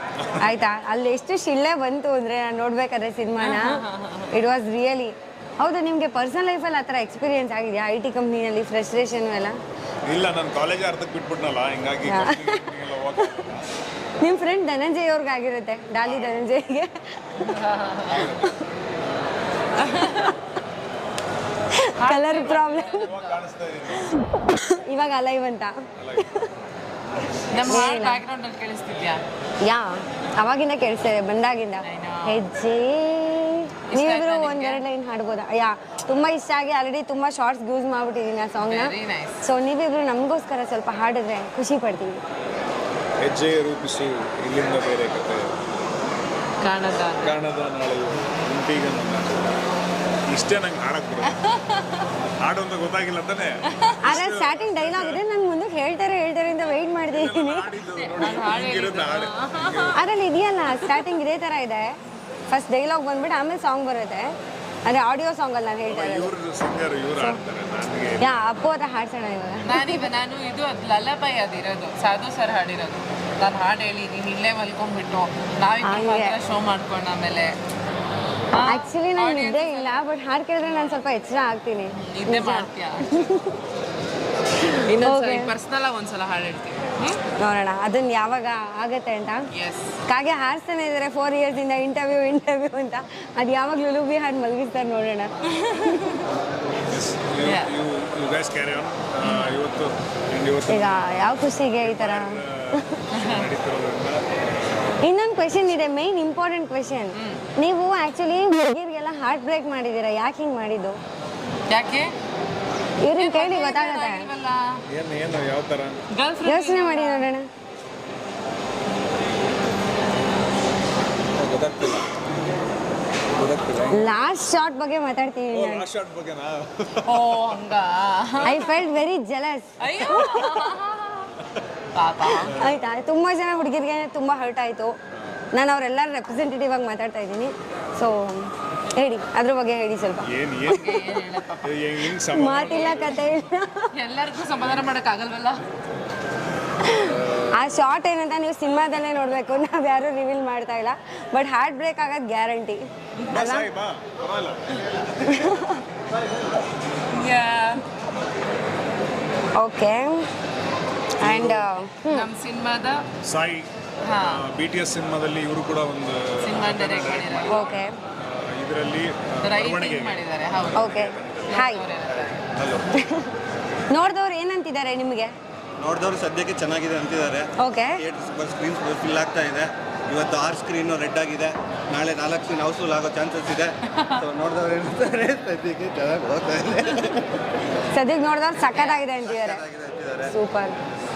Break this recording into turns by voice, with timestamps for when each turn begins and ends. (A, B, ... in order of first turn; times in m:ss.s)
0:00.2-0:00.6 A
0:00.4-0:09.6 B
0:03.4-0:04.3 C
0:10.0-0:13.7 A
0:12.0-0:12.7 B
0:14.2-0:17.4 B
0:16.0-0:16.4 A
0:17.4-0:18.3 C
0:18.1-0:18.6 A
0:18.3-0:18.5 B
0:19.7-0:20.4 C
0:21.8-0:23.0 B
0:22.0-0:23.4 C
0:22.8-0:24.2 A
0:23.9-0:26.5 B
0:26.0-0:26.5 A
0:27.5-0:29.2 C
0:27.6-0:28.2 B
0:29.6-0:42.2 B
0:31.8-0:32.4 C
0:33.9-0:34.8 C
0:38.6-0:39.4 C
0:43.2-0:45.6 A
0:46.6-0:47.4 C
0:47.2-0:49.6 A
0:50.3-0:51.4 A
0:51.2-0:52.1 C
0:52.4-0:55.2 A
0:54.0-0:57.7 B
0:57.1-1:00.0 A
0:58.0-1:00.0 C
1:00.0-1:01.9 B
1:00.7-1:01.1 C
1:02.5-1:04.3 B
1:04.8-1:06.3 B
1:05.9-1:08.3 A
1:07.2-1:07.4 B
1:08.2-1:10.1 B
1:09.6-1:17.6 C
1:15.8-1:16.4 B
1:18.5-1:20.0 C
1:18.6-1:23.6 B
1:20.6-1:21.0 C
1:21.9-1:23.3 C
1:24.7-1:27.2 C
1:25.0-1:25.5 B
1:27.4-1:29.5 B
1:29.5-1:30.0 C
1:30.1-1:35.3 B
1:35.5-1:36.3 C
1:35.8-1:36.2 B
1:36.9-1:44.2 A
1:37.4-1:37.7 C
1:39.2-1:39.5 C
1:40.7-1:42.9 B
1:43.1-1:43.5 C
1:45.0-1:51.0 B
1:47.1-1:47.4 C
1:51.7-1:52.1 C
1:53.0-1:54.3 B
1:53.2-1:54.8 C
1:54.9-1:56.0 A
1:56.1-1:57.3 C
1:56.4-1:57.5 B
2:01.4-2:02.1 A
2:03.4-2:04.1 A
2:03.9-2:05.9 B
2:05.5-2:07.4 A
2:07.0-2:08.9 C
2:08.3-2:08.8 A
2:08.4-2:10.4 B
2:09.8-2:11.3 C
2:10.1-2:10.6 A
2:11.9-2:12.6 C
2:12.4-2:12.8 A
2:12.6-2:14.9 B
2:15.1-2:15.4 A
2:15.5-2:20.3 B
2:20.2-2:23.4 A
2:20.7-2:21.8 C
2:22.2-2:23.9 B
2:23.9-2:25.6 C
2:26.8-2:33.7 B
2:27.0-2:27.6 A
2:33.3-2:35.8 A
2:35.3-2:35.8 B
2:37.1-2:37.8 C
2:39.6-2:40.2 B
2:41.2-2:41.7 A
2:41.2-2:42.3 B
2:42.1-2:43.0 C
2:43.2-2:51.8 A
2:44.0-2:44.4 C
2:46.4-2:47.6 C
2:47.5-2:47.9 B
2:49.4-2:50.9 C
2:50.8-2:51.8 B
2:51.5-2:52.5 C
2:52.5-2:52.9 A
2:52.9-2:53.3 B
2:53.9-2:55.3 B
2:55.8-3:07.4 D
2:57.6-2:58.0 B
3:03.9-3:04.2 C
3:07.9-3:09.6 B
3:08.6-3:09.1 C
3:09.2-3:10.3 D
3:10.3-3:10.8 B